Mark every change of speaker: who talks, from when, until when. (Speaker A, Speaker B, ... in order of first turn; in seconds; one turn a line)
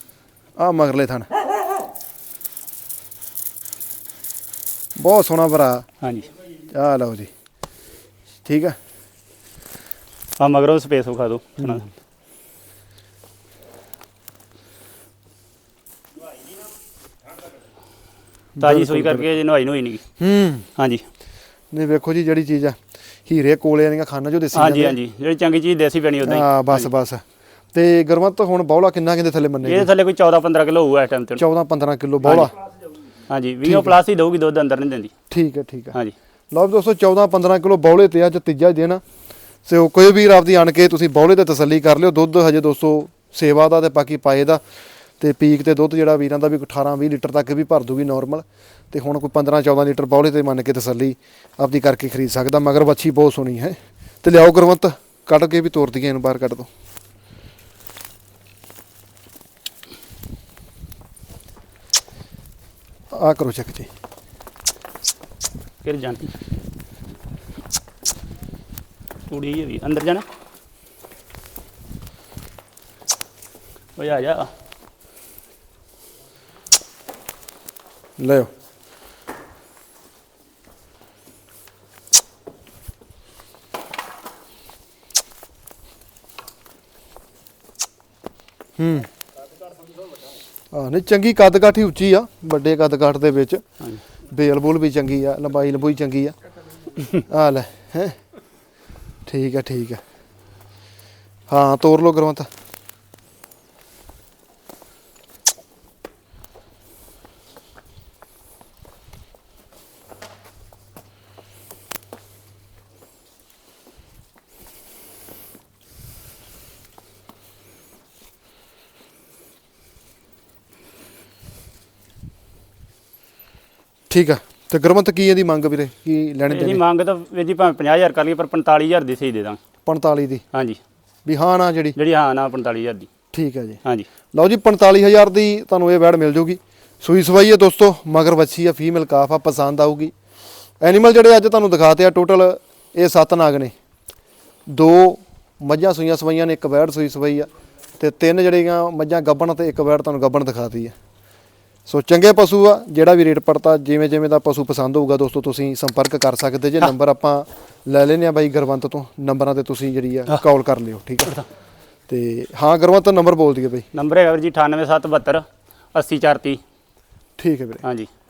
Speaker A: 0.6-1.3
Speaker A: 5.0-5.8
Speaker B: 6.0-6.3
Speaker A: 6.7-7.3
Speaker A: 8.4-8.8
Speaker B: 10.4-11.8
Speaker A: 18.6-19.3
Speaker B: 18.6-20.0
Speaker A: 20.2-20.7
Speaker B: 20.8-21.0
Speaker A: 21.7-24.9
Speaker B: 24.5-26.9
Speaker A: 26.2-27.2
Speaker A: 27.7-29.9
Speaker B: 29.6-31.4
Speaker A: 31.4-32.5
Speaker B: 32.2-32.5
Speaker B: 33.3-35.1
Speaker A: 33.6-33.9
Speaker A: 35.3-36.0
Speaker A: 36.5-39.0
Speaker A: 39.6-44.6
Speaker A: 45.2-56.7
Speaker A: 63.1-63.9
Speaker B: 65.8-66.3
Speaker B: 69.3-70.2
Speaker B: 74.0-74.5
Speaker A: 78.2-78.5
Speaker A: 88.8-89.1
Speaker A: 90.7-93.6
Speaker A: 94.3-96.3
Speaker A: 97.3-98.2
Speaker A: 99.2-100.0
Speaker A: 101.5-102.5
Speaker A: 124.1-126.8
Speaker B: 126.5-129.6
Speaker A: 129.8-130.4
Speaker B: 130.5-130.8
Speaker A: 131.2-131.9
Speaker B: 131.9-133.1
Speaker A: 133.3-133.8
Speaker A: 134.3-140.1
Speaker A: 140.8-143.7
Speaker A: 144.7-150.9
Speaker A: 151.9-161.4
Speaker A: 162.1-163.8
Speaker B: 163.9-166.6
Speaker A: 167.4-167.8
Speaker B: 167.8-168.1